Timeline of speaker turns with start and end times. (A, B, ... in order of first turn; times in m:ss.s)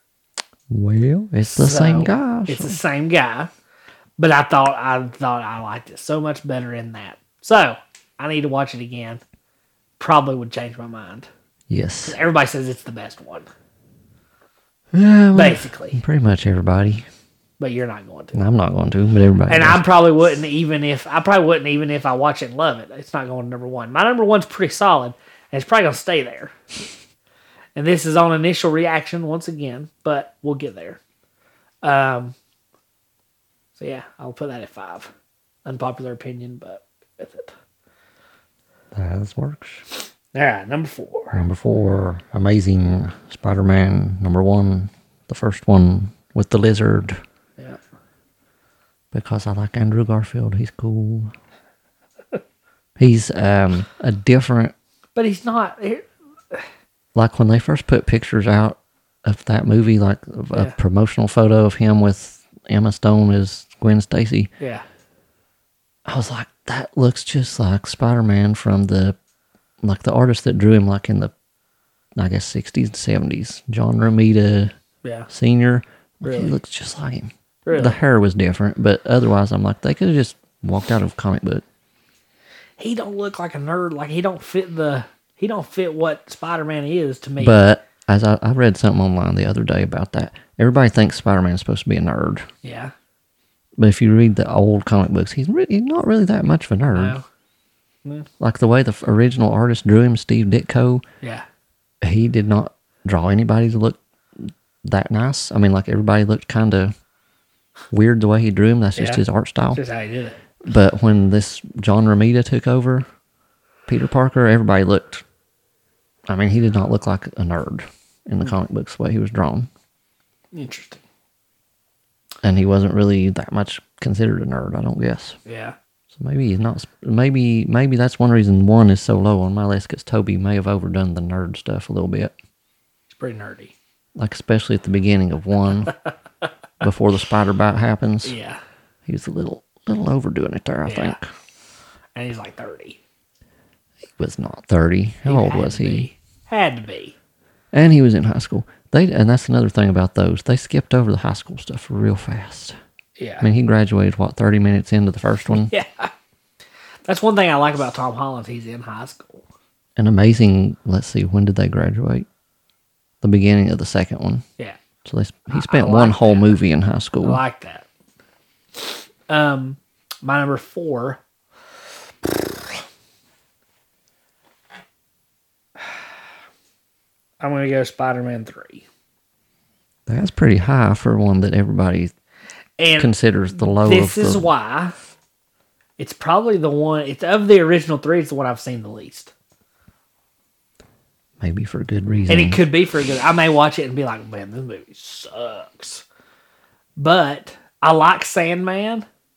0:00.7-0:02.8 A
0:01.5-0:03.5 B
0:04.2-0:09.2 B
0:10.0-0:11.3 B
0:11.7-0:12.2 A
0:12.0-0:13.5 B
0:14.9-0:17.0 A
0:15.3-0:16.0 B
0:17.6-0:18.4 B
0:18.3-0:19.8 A
0:19.5-0:26.5 B
0:27.8-0:31.0 B
0:31.8-0:32.4 B
0:33.8-0:35.1 B
0:35.6-0:37.5 B
0:38.9-0:39.8 A
0:40.3-0:41.4 B
0:41.3-0:47.2 A
0:49.1-0:51.3 A
0:53.0-0:54.7 A
0:55.1-0:56.6 B
0:57.1-1:04.5 A
1:04.6-1:04.8 B
1:06.0-1:09.2 A
1:09.8-1:11.3 A
1:12.2-1:14.7 A
1:15.0-1:15.3 B
1:15.3-1:21.6 A
1:16.2-1:16.6 B
1:17.6-1:18.0 B
1:22.8-1:27.6 B
1:27.4-1:32.5 A
1:32.6-1:32.9 B
1:33.8-1:37.2 A
1:36.9-1:37.2 B
1:38.4-1:41.0 A
1:42.0-1:46.9 A
1:47.9-1:49.8 A
1:49.0-1:49.2 B
1:49.7-1:50.4 B
1:50.6-1:53.0 A
1:53.9-1:55.2 A
1:56.3-1:59.7 A
2:00.5-2:01.0 B
2:02.4-2:05.4 A
2:05.4-2:05.8 B
2:06.1-2:12.3 A
2:13.1-2:13.7 B
2:14.2-2:15.9 A
2:16.8-2:18.4 A
2:18.2-2:18.6 B
2:19.0-2:21.2 A
2:20.8-2:21.2 B
2:22.2-2:23.0 B
2:24.2-2:26.1 A
2:25.2-2:27.2 B
2:27.7-2:32.8 A
2:33.2-2:33.5 B
2:33.4-2:35.7 A
2:35.5-2:36.1 B
2:37.0-2:39.4 B
2:40.0-2:42.3 A
2:43.2-2:44.4 A
2:45.0-2:47.4 A
2:45.5-2:46.6 B
2:47.2-2:47.8 B
2:48.8-2:51.2 B
2:52.2-2:52.8 B
2:57.4-2:58.8 B
3:00.1-3:02.1 A
3:02.8-3:03.1 B
3:03.0-3:04.5 A
3:03.8-3:04.9 B
3:06.0-3:09.3 B
3:11.4-3:12.6 A
3:12.3-3:16.0 B
3:17.0-3:19.0 B